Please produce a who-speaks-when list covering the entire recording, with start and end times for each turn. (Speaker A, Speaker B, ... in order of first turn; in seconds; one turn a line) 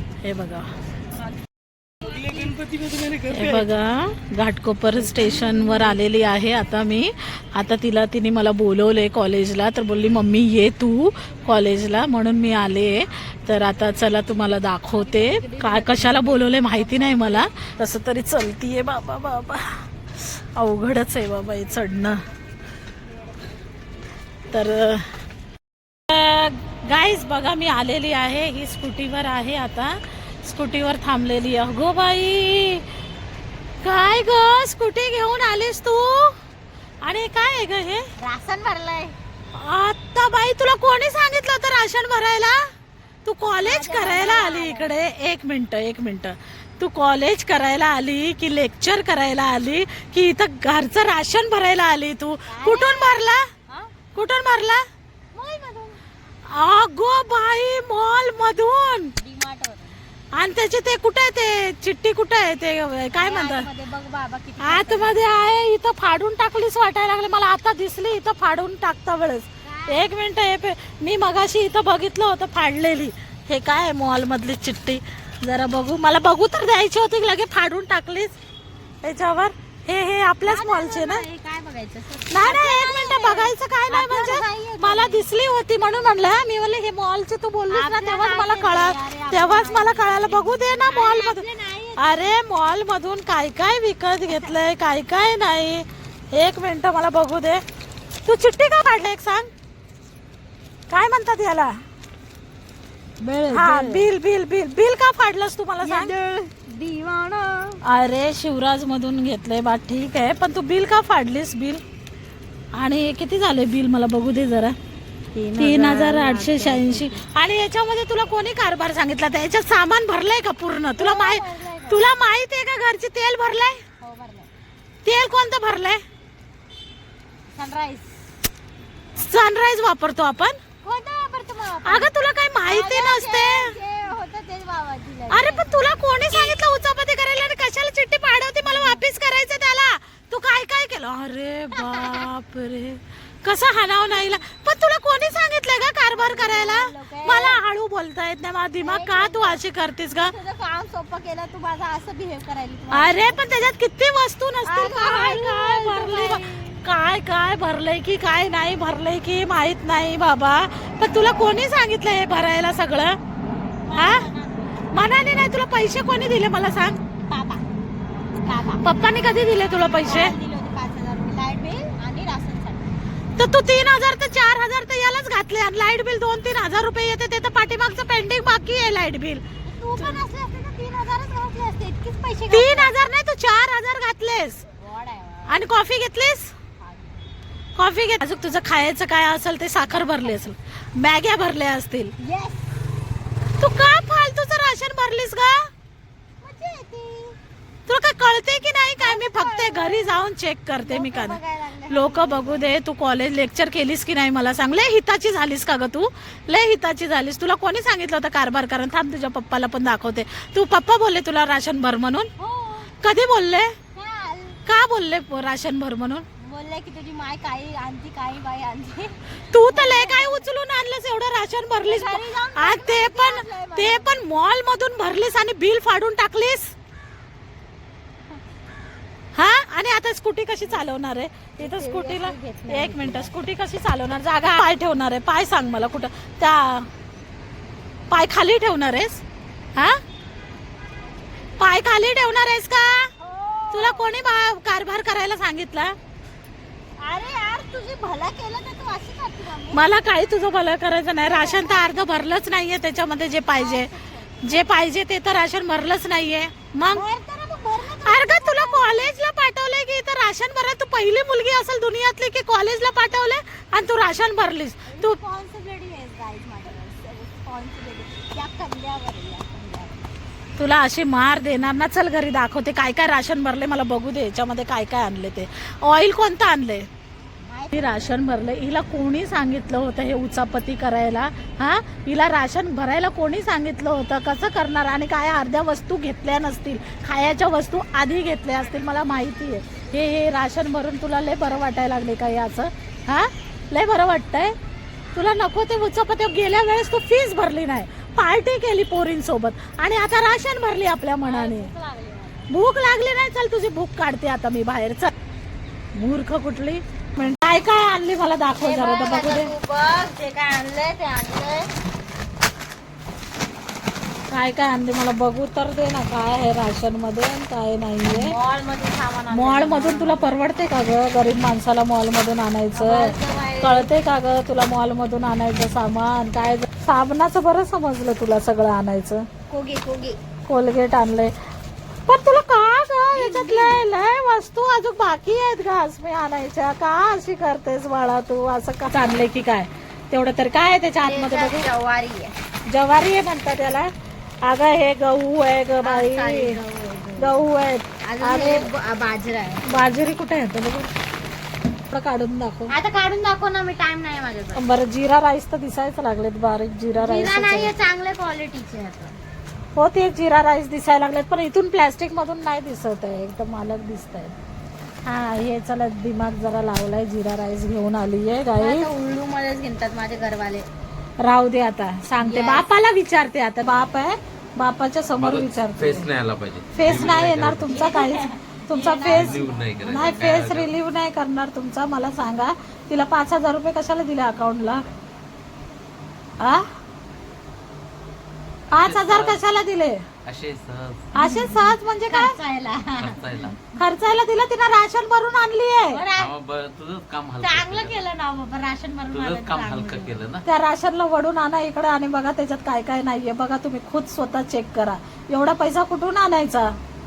Speaker A: 0.2-0.7
Speaker A: 3.2-22.2
Speaker B: 16.9-17.3
Speaker A: 24.5-25.1
Speaker A: 26.1-32.8
Speaker A: 33.8-36.3
Speaker A: 37.0-38.0
Speaker B: 38.2-39.1
Speaker A: 39.5-42.6
Speaker A: 43.2-53.4
Speaker B: 43.5-45.0
Speaker B: 52.5-53.9
Speaker A: 54.1-54.8
Speaker B: 55.3-56.0
Speaker A: 56.5-59.1
Speaker B: 59.2-60.0
Speaker A: 60.3-63.7
Speaker B: 63.1-65.5
Speaker A: 64.6-78.3
Speaker B: 69.6-70.1
Speaker A: 79.0-81.2
Speaker B: 80.4-85.3
Speaker A: 82.3-91.4
Speaker B: 87.7-92.4
Speaker A: 92.0-97.6
Speaker A: 98.2-99.5
Speaker A: 100.9-101.7
Speaker B: 103.2-104.1
Speaker A: 103.5-106.1
Speaker B: 105.8-107.8
Speaker A: 107.8-111.8
Speaker A: 112.8-114.8
Speaker B: 115.3-117.2
Speaker A: 115.6-123.8
Speaker B: 121.0-122.0
Speaker B: 124.0-124.5
Speaker A: 125.0-126.0
Speaker B: 127.5-128.2
Speaker A: 129.2-130.6
Speaker B: 130.8-132.1
Speaker A: 131.8-133.7
Speaker B: 132.7-135.8
Speaker A: 135.3-150.3
Speaker B: 138.6-139.0
Speaker B: 141.7-142.3
Speaker B: 146.1-147.6
Speaker B: 148.8-149.6
Speaker B: 150.1-153.5
Speaker A: 152.9-163.2
Speaker B: 154.7-156.8
Speaker B: 163.8-164.8
Speaker A: 163.9-164.3
Speaker A: 164.9-167.0
Speaker B: 167.3-167.6
Speaker B: 168.3-172.9
Speaker A: 168.8-170.3
Speaker A: 173.4-179.4
Speaker B: 179.6-183.0
Speaker A: 182.5-184.6
Speaker B: 184.8-185.7
Speaker A: 185.5-186.5
Speaker B: 186.8-187.3
Speaker A: 187.8-192.1
Speaker B: 190.0-190.3
Speaker B: 192.2-192.7
Speaker A: 193.6-195.7
Speaker B: 196.4-197.3
Speaker A: 197.9-201.4
Speaker B: 199.0-200.2
Speaker B: 200.8-202.7
Speaker A: 201.9-212.3
Speaker B: 212.4-212.9
Speaker A: 213.0-213.7
Speaker B: 213.9-214.6
Speaker A: 214.7-216.2
Speaker B: 216.4-220.4
Speaker A: 219.5-226.7
Speaker B: 221.8-224.2
Speaker A: 229.3-236.9
Speaker B: 231.6-233.3
Speaker A: 238.1-239.2
Speaker A: 241.6-243.1
Speaker B: 243.2-244.1
Speaker A: 243.7-245.9
Speaker B: 247.0-249.8
Speaker A: 249.7-253.9
Speaker B: 251.2-252.0
Speaker B: 253.5-254.7
Speaker A: 254.4-257.0
Speaker B: 256.9-259.1
Speaker A: 258.1-265.2
Speaker B: 264.9-270.1
Speaker A: 270.6-276.9
Speaker B: 277.4-278.1
Speaker A: 277.7-294.5
Speaker A: 295.1-301.7
Speaker B: 301.2-302.5
Speaker A: 302.5-305.1
Speaker A: 305.9-309.5
Speaker B: 308.6-311.7
Speaker A: 314.3-318.3
Speaker B: 318.1-320.3
Speaker A: 319.3-329.2
Speaker B: 322.7-323.9
Speaker B: 329.5-330.2
Speaker A: 330.5-331.3
Speaker A: 332.1-341.7
Speaker B: 333.1-333.8
Speaker B: 341.0-342.3
Speaker A: 342.7-343.9
Speaker A: 344.4-346.6
Speaker B: 345.8-347.4
Speaker A: 347.2-348.7
Speaker B: 348.1-349.6
Speaker A: 349.6-350.9
Speaker A: 351.9-352.8
Speaker B: 352.7-354.6
Speaker A: 354.5-357.7
Speaker B: 356.9-359.2
Speaker A: 359.8-364.4
Speaker A: 365.0-368.9
Speaker B: 368.6-370.7
Speaker A: 371.2-376.1
Speaker B: 372.2-372.6
Speaker C: 375.2-377.9
Speaker A: 376.7-384.9
Speaker B: 376.8-380.4
Speaker C: 379.1-380.7
Speaker A: 386.4-386.6
Speaker A: 388.7-390.0
Speaker C: 388.8-389.4
Speaker C: 390.2-391.1
Speaker A: 391.1-392.4
Speaker B: 391.2-393.2
Speaker C: 393.0-393.6
Speaker A: 393.8-396.0
Speaker B: 395.9-396.3
Speaker C: 396.1-398.0
Speaker B: 397.4-400.2
Speaker C: 399.1-400.4
Speaker A: 400.4-406.8